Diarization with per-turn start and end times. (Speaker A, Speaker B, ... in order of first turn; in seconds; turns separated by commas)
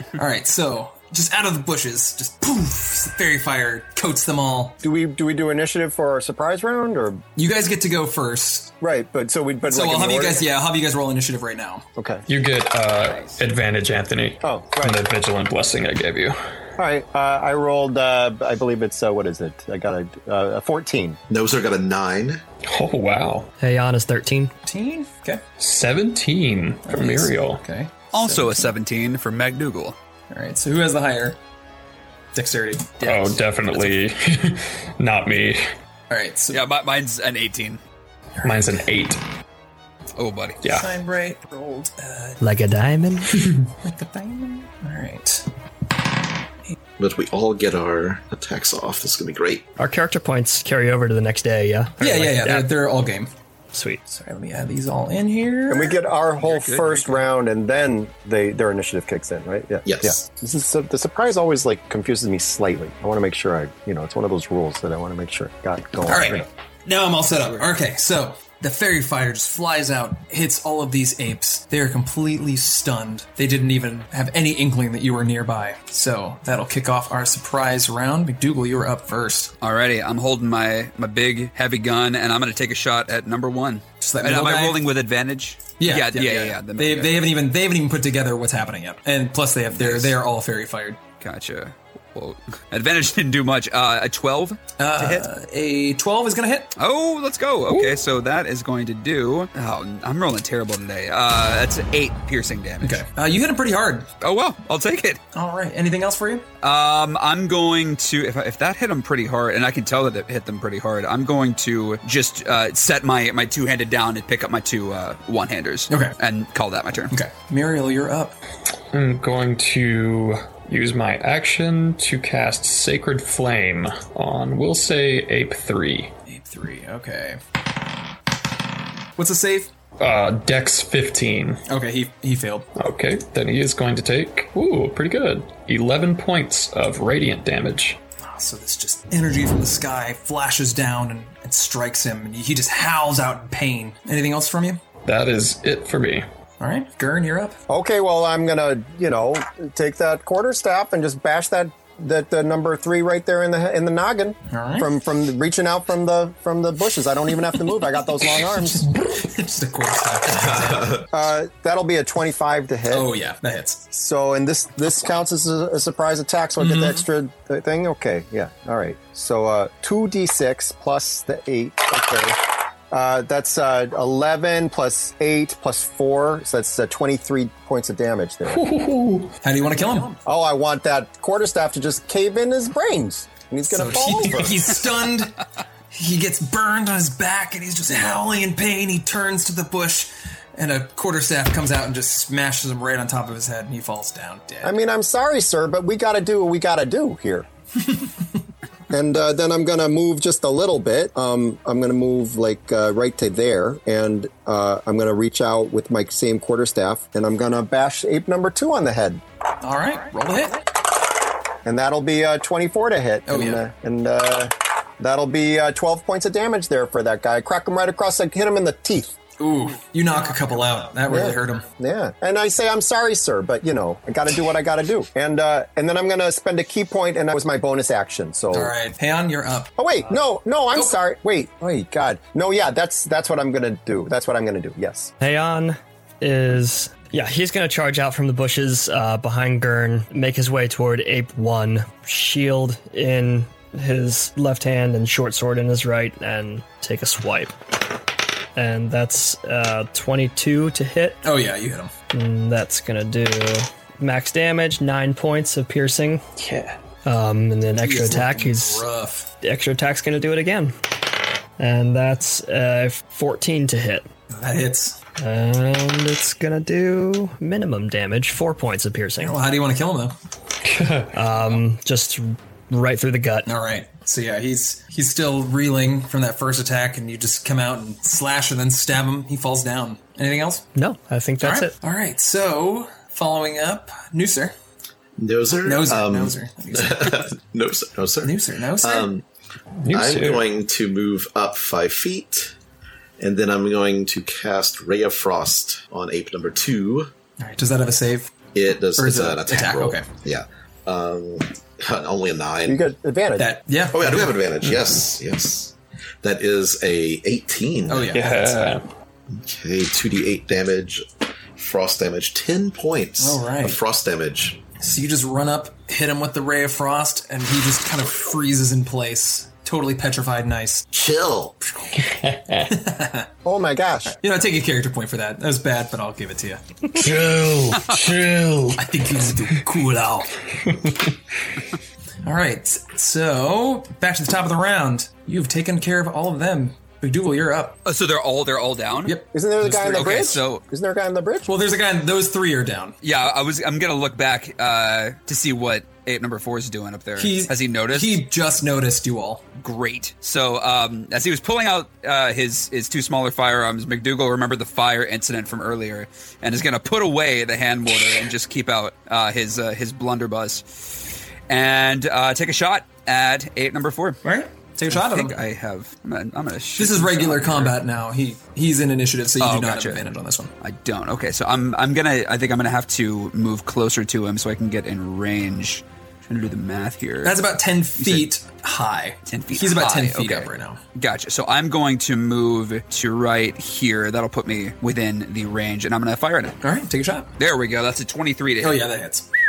Speaker A: 0.2-4.8, Speaker B: 4.8-7.2, Speaker A: 7.4-8.7, Speaker B: 8.8-10.4, Speaker A: 9.7-11.8, Speaker B: 12.0-12.2, Speaker C: 12.3-16.4, Speaker B: 14.4-15.0, Speaker B: 16.8-21.2, Speaker D: 21.3-22.4, Speaker C: 22.6-23.5, Speaker E: 23.6-24.5, Speaker A: 24.7-25.4, Speaker C: 25.6-27.6, Speaker A: 26.8-28.7, Speaker F: 28.1-30.0, Speaker A: 30.3-31.4, Speaker A: 32.3-33.9, Speaker C: 33.0-35.7, Speaker A: 36.1-36.7, Speaker F: 36.5-37.8, Speaker A: 38.4-38.8, Speaker C: 38.4-39.2, Speaker F: 40.2-40.6, Speaker C: 40.6-40.9, Speaker A: 40.7-42.4, Speaker E: 42.4-43.5, Speaker A: 43.8-45.5, Speaker D: 47.0-49.7, Speaker E: 49.8-52.7, Speaker A: 52.0-53.3, Speaker E: 53.7-54.0, Speaker A: 54.1-56.0, Speaker B: 55.7-66.5, Speaker F: 56.4-57.2, Speaker D: 59.9-60.2, Speaker A: 66.1-79.5, Speaker F: 79.6-87.3, Speaker A: 84.0-84.8, Speaker A: 85.8-91.0, Speaker F: 89.7-90.2, Speaker F: 91.2-95.3, Speaker A: 94.8-96.7, Speaker F: 96.8-103.1, Speaker A: 102.8-104.1, Speaker F: 104.2-105.2, Speaker A: 105.3-106.5, Speaker F: 106.6-117.2, Speaker A: 115.9-116.2, Speaker A: 117.1-118.4, Speaker C: 118.9-126.1, Speaker A: 126.3-127.4, Speaker A: 129.2-129.7, Speaker C: 130.0-131.6, Speaker A: 131.7-132.7, Speaker C: 132.8-138.0, Speaker A: 138.2-144.8, Speaker C: 145.1-146.3, Speaker A: 146.6-147.6, Speaker B: 147.7-158.9, Speaker A: 154.5-154.9, Speaker A: 158.5-161.1, Speaker D: 160.3-161.1, Speaker B: 161.1-163.1, Speaker A: 162.9-163.9, Speaker B: 163.9-178.7, Speaker A: 166.6-167.0, Speaker C: 178.5-179.4, Speaker A: 179.4-180.2, Speaker B: 180.3-184.7, Speaker A: 183.7-194.8, Speaker B: 194.6-197.5, Speaker B: 198.9-209.2, Speaker A: 209.6-210.7, Speaker B: 211.6-219.2, Speaker A: 213.3-213.6, Speaker A: 219.4-221.7, Speaker B: 221.1-228.7, Speaker A: 228.5-229.7, Speaker B: 229.8-235.1, Speaker E: 235.2-247.6, Speaker E: 248.6-251.2, Speaker A: 251.2-251.9, Speaker E: 252.1-256.2, Speaker C: 256.4-256.8, Speaker E: 257.1-258.9, Speaker A: 257.8-259.3, Speaker E: 259.4-260.8, Speaker E: 261.6-264.1, Speaker A: 264.3-265.0, Speaker E: 265.2-269.4, Speaker A: 269.2-270.1, Speaker C: 270.6-271.1, Speaker E: 271.1-273.5, Speaker A: 273.5-280.7, Speaker E: 280.8-281.7, Speaker A: 281.4-284.6, Speaker D: 285.2-289.2, Speaker A: 285.6-287.3, Speaker A: 288.2-289.1, Speaker C: 289.8-290.5, Speaker D: 289.9-292.5, Speaker D: 293.2-297.1, Speaker A: 297.4-298.3, Speaker D: 298.5-302.8, Speaker A: 299.0-300.1, Speaker B: 302.7-303.5, Speaker A: 303.4-304.4, Speaker D: 303.9-308.1, Speaker A: 307.9-308.6, Speaker C: 308.1-308.9, Speaker D: 309.3-311.1, Speaker D: 311.6-314.6, Speaker A: 313.2-313.8, Speaker A: 314.8-320.9, Speaker D: 320.9-321.6, Speaker C: 322.0-322.8, Speaker A: 322.7-323.3, Speaker B: 323.4-324.2, Speaker A: 324.1-326.6, Speaker C: 326.9-328.9, Speaker A: 328.8-330.3, Speaker C: 330.7-331.1, Speaker A: 332.2-337.8, Speaker F: 337.9-339.2, Speaker A: 339.0-340.1, Speaker B: 339.3-341.5, Speaker F: 339.8-340.6, Speaker A: 341.5-343.0, Speaker F: 343.0-348.3, Speaker A: 347.2-349.4, Speaker F: 349.6-360.9, Speaker F: 361.5-364.2, Speaker A: 364.2-365.4, Speaker F: 364.9-367.8, Speaker A: 366.8-370.5, Speaker F: 369.4-370.0, Speaker F: 370.6-377.4, Speaker A: 377.2-380.8, Speaker F: 378.0-378.3, Speaker F: 379.3-386.6, Speaker A: 386.6-387.3, Speaker F: 387.4-388.9, Speaker A: 388.6-389.3